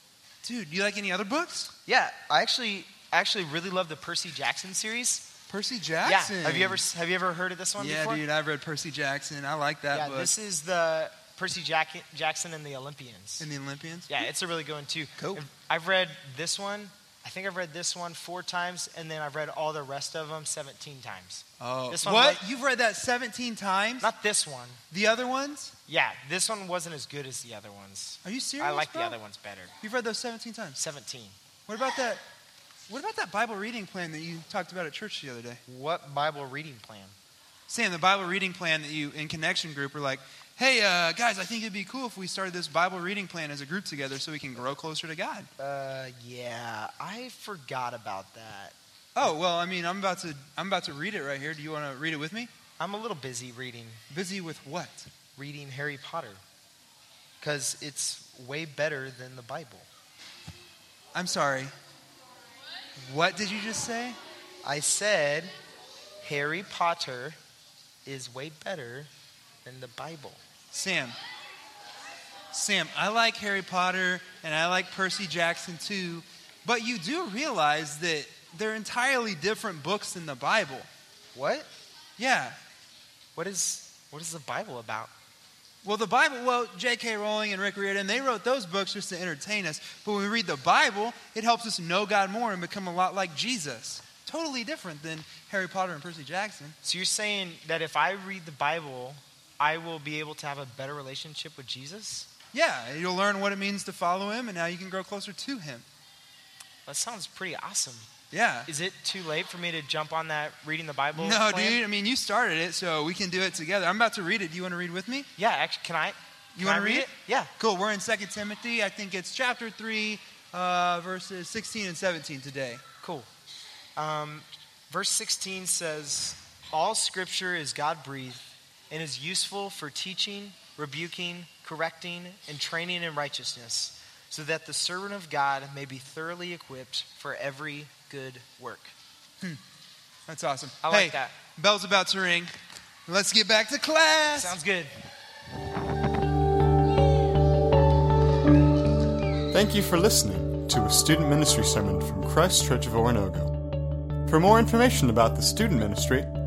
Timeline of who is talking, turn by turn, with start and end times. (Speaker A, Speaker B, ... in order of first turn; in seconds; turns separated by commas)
Speaker A: 0.4-1.7, Speaker B: 1.9-5.3, Speaker A: 5.5-6.8, Speaker B: 6.0-8.2, Speaker A: 7.8-10.3, Speaker B: 9.9-13.5, Speaker A: 13.4-14.2, Speaker B: 14.1-22.4, Speaker A: 21.6-24.1, Speaker B: 24.0-24.8, Speaker A: 24.9-25.7, Speaker B: 25.9-29.7, Speaker A: 28.2-29.2, Speaker A: 29.8-30.8, Speaker B: 30.8-31.3, Speaker A: 31.7-32.2, Speaker A: 32.9-35.6, Speaker B: 35.7-37.1, Speaker A: 37.7-45.5, Speaker B: 45.6-48.7, Speaker A: 49.1-52.5, Speaker B: 52.8-54.0, Speaker A: 54.1-55.1, Speaker B: 55.4-56.4, Speaker B: 57.4-59.9, Speaker A: 61.1-61.7, Speaker A: 63.0-64.2, Speaker B: 64.6-65.5, Speaker B: 66.2-67.4, Speaker B: 68.0-69.1, Speaker B: 69.6-70.4, Speaker A: 70.7-71.2, Speaker A: 72.5-80.9, Speaker B: 81.3-81.7, Speaker A: 82.2-82.5, Speaker B: 83.3-85.1, Speaker A: 85.8-96.8, Speaker B: 96.8-102.3, Speaker A: 102.5-105.8, Speaker B: 106.8-108.1, Speaker A: 108.3-108.7, Speaker B: 108.7-111.8, Speaker A: 111.1-115.3, Speaker B: 115.3-117.5, Speaker A: 116.5-122.8, Speaker B: 123.0-123.3, Speaker B: 124.0-138.9, Speaker A: 140.3-142.5, Speaker B: 140.8-141.3, Speaker A: 143.1-144.6, Speaker B: 144.3-144.9, Speaker C: 149.5-153.5, Speaker C: 154.2-156.3